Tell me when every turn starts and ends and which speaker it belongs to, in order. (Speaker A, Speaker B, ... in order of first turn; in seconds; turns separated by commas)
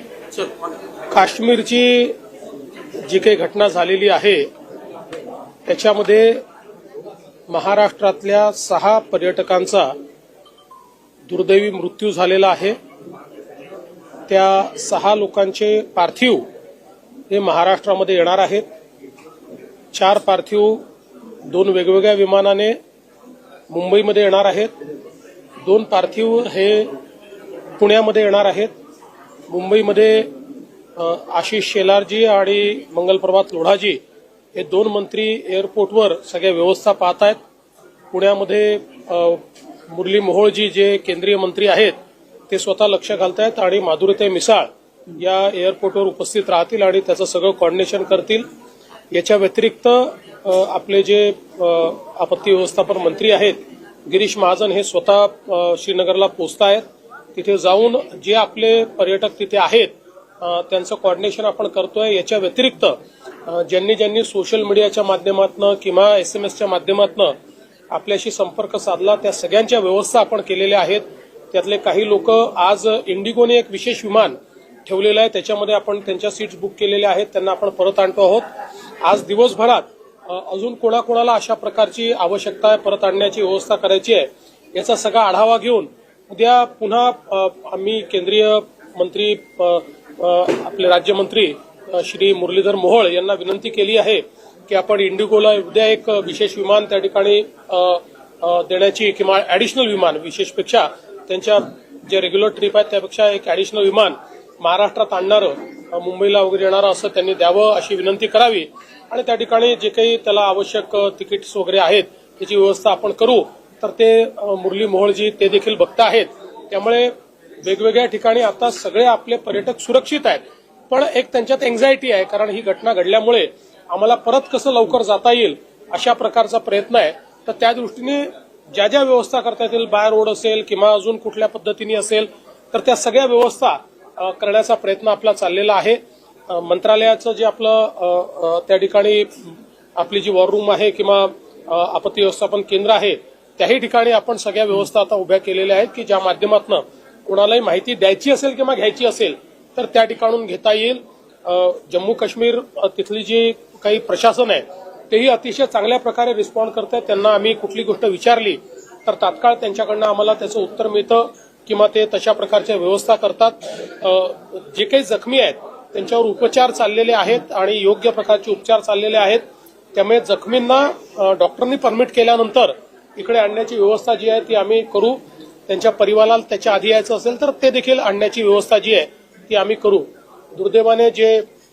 Speaker A: 1.1-2.1, Speaker A: 3.1-4.5, Speaker A: 5.7-6.4, Speaker A: 7.5-9.9, Speaker A: 11.3-12.8, Speaker A: 14.3-16.4, Speaker A: 17.3-18.6, Speaker A: 19.9-20.8, Speaker A: 21.4-22.8, Speaker A: 23.7-24.7, Speaker A: 25.6-26.9, Speaker A: 27.8-28.7, Speaker A: 29.5-30.3, Speaker A: 31.0-34.0, Speaker A: 34.5-37.4, Speaker A: 38.1-42.0, Speaker A: 42.5-48.5, Speaker A: 49.1-56.8, Speaker A: 57.3-67.3, Speaker A: 67.9-78.4, Speaker A: 79.0-169.4, Speaker A: 169.9-181.4